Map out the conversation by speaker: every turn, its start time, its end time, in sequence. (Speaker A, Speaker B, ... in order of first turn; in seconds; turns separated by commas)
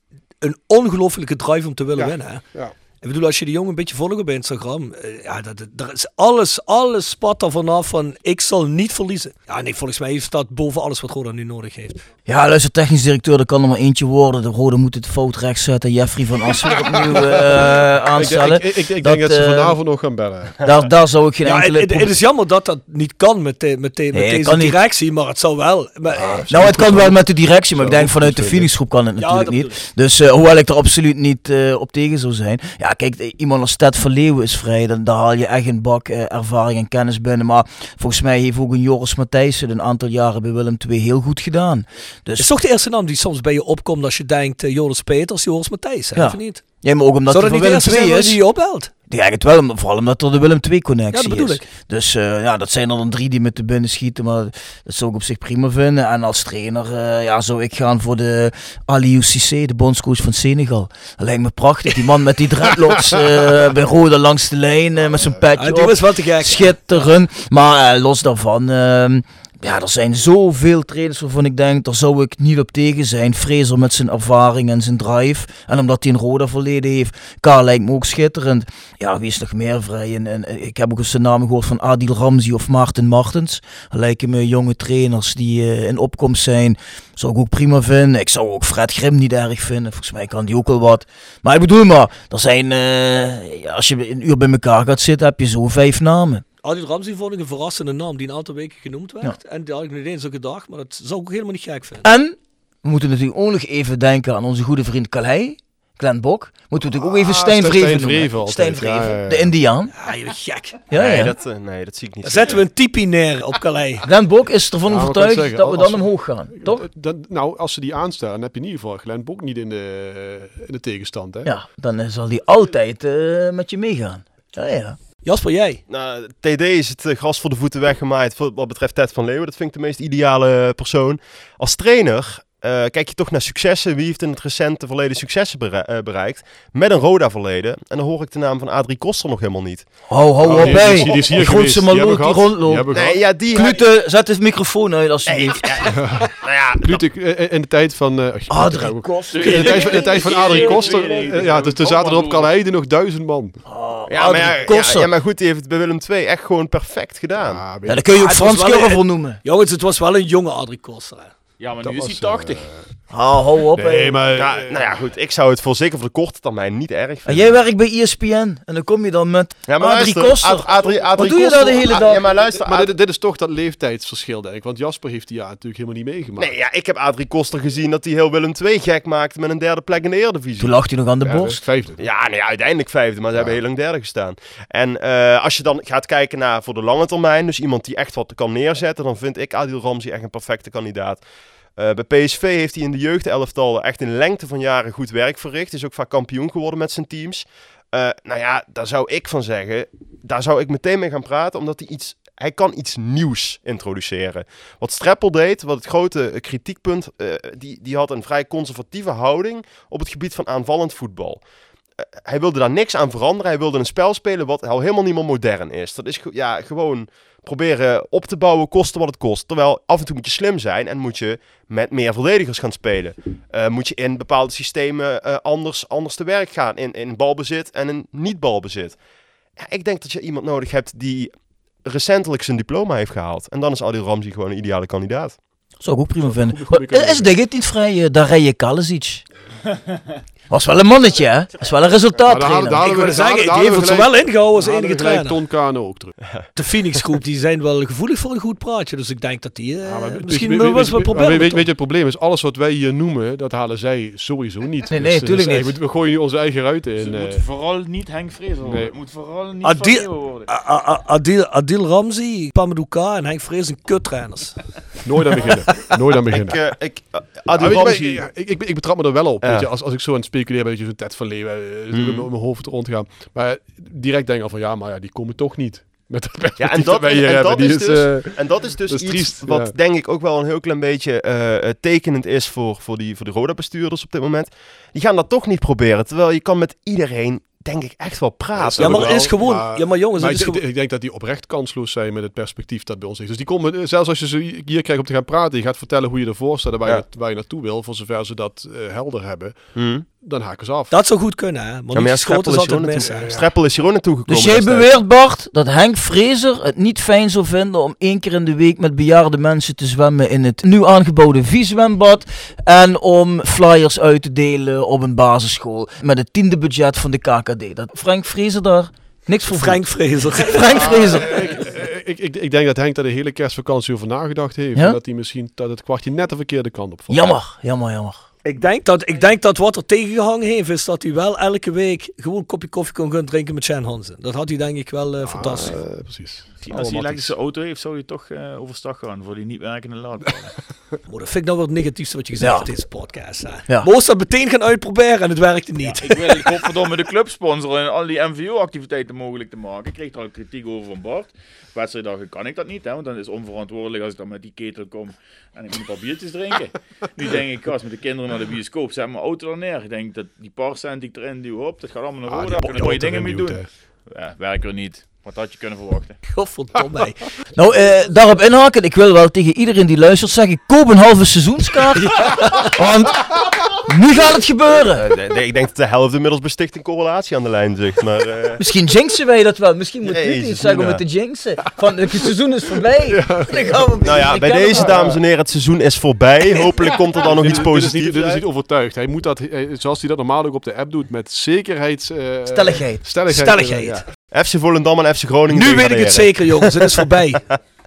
Speaker A: 0.4-2.5, Speaker B: 1.9-2.7, Speaker A: 3.0-12.0, Speaker C: 12.2-19.8, Speaker B: 17.1-20.6, Speaker C: 20.6-22.1, Speaker A: 21.4-26.4, Speaker C: 24.1-24.8, Speaker B: 26.1-28.7, Speaker C: 26.5-42.5, Speaker A: 29.2-29.8, Speaker A: 42.4-46.6, Speaker C: 46.1-48.4, Speaker A: 47.3-48.9, Speaker C: 49.1-96.4, Speaker A: 51.1-51.6, Speaker A: 65.6-66.8, Speaker A: 96.6-102.1, Speaker C: 102.0-109.9, Speaker B: 106.9-109.5, Speaker A: 109.9-110.8, Speaker C: 110.9-111.3, Speaker D: 110.9-112.6, Speaker A: 112.2-114.0, Speaker C: 114.0-116.8, Speaker B: 114.8-121.5, Speaker C: 121.4-125.0, Speaker A: 125.2-125.8, Speaker D: 125.9-139.8, Speaker C: 140.1-142.9, Speaker B: 140.4-143.3, Speaker D: 140.5-141.2, Speaker D: 142.9-143.9, Speaker C: 143.5-145.9, Speaker D: 145.3-147.0, Speaker B: 145.9-153.6, Speaker C: 148.5-150.1, Speaker E: 149.3-152.5, Speaker C: 153.7-155.1, Speaker D: 154.1-157.6, Speaker B: 157.3-158.0, Speaker C: 157.8-159.4, Speaker A: 158.2-161.3, Speaker E: 161.6-162.7, Speaker B: 161.8-163.0, Speaker C: 163.1-164.2, Speaker B: 163.7-165.1, Speaker D: 164.4-167.6, Speaker C: 167.3-172.2, Speaker D: 169.7-172.9, Speaker B: 172.0-176.5, Speaker D: 176.4-180.8, Speaker C: 180.6-181.6, Speaker B: 181.2-182.0, Speaker D: 182.0-191.2, Speaker D: 191.8-211.4, Speaker D: 212.2-229.0, Speaker D: 229.6-231.3, Speaker D: 231.8-235.4, Speaker C: 235.8-239.2, Speaker B: 236.2-237.3, Speaker C: 240.5-242.8, Speaker B: 242.3-246.2, Speaker A: 242.8-245.4, Speaker A: 246.6-251.7, Speaker B: 249.8-257.4, Speaker C: 254.9-255.8, Speaker E: 257.0-260.5, Speaker B: 258.6-258.9, Speaker A: 259.6-264.6, Speaker B: 265.0-266.6, Speaker D: 266.3-268.3, Speaker B: 267.6-279.7, Speaker D: 269.4-269.7, Speaker D: 271.9-272.3, Speaker D: 276.6-289.3, Speaker B: 288.6-300.9, Speaker A: 288.8-290.6, Speaker D: 299.7-300.1, Speaker A: 300.9-303.3, Speaker D: 301.9-305.0, Speaker B: 303.1-303.5, Speaker C: 304.3-321.3, Speaker A: 319.5-321.1, Speaker B: 321.1-327.2, Speaker C: 327.1-328.2, Speaker A: 328.4-335.8, Speaker B: 335.2-337.3, Speaker E: 336.6-340.6, Speaker A: 341.1-346.4, Speaker C: 342.4-342.6, Speaker E: 345.8-366.2, Speaker B: 362.3-363.7, Speaker A: 366.3-367.2, Speaker C: 367.6-373.3, Speaker C: 373.8-375.1, Speaker D: 374.9-378.6, Speaker C: 378.6-385.1, Speaker D: 380.0-381.0, Speaker B: 383.1-385.2, Speaker D: 384.0-388.4, Speaker B: 387.1-394.1, Speaker C: 392.5-393.1, Speaker A: 393.3-394.0, Speaker D: 394.3-396.6, Speaker A: 395.5-397.4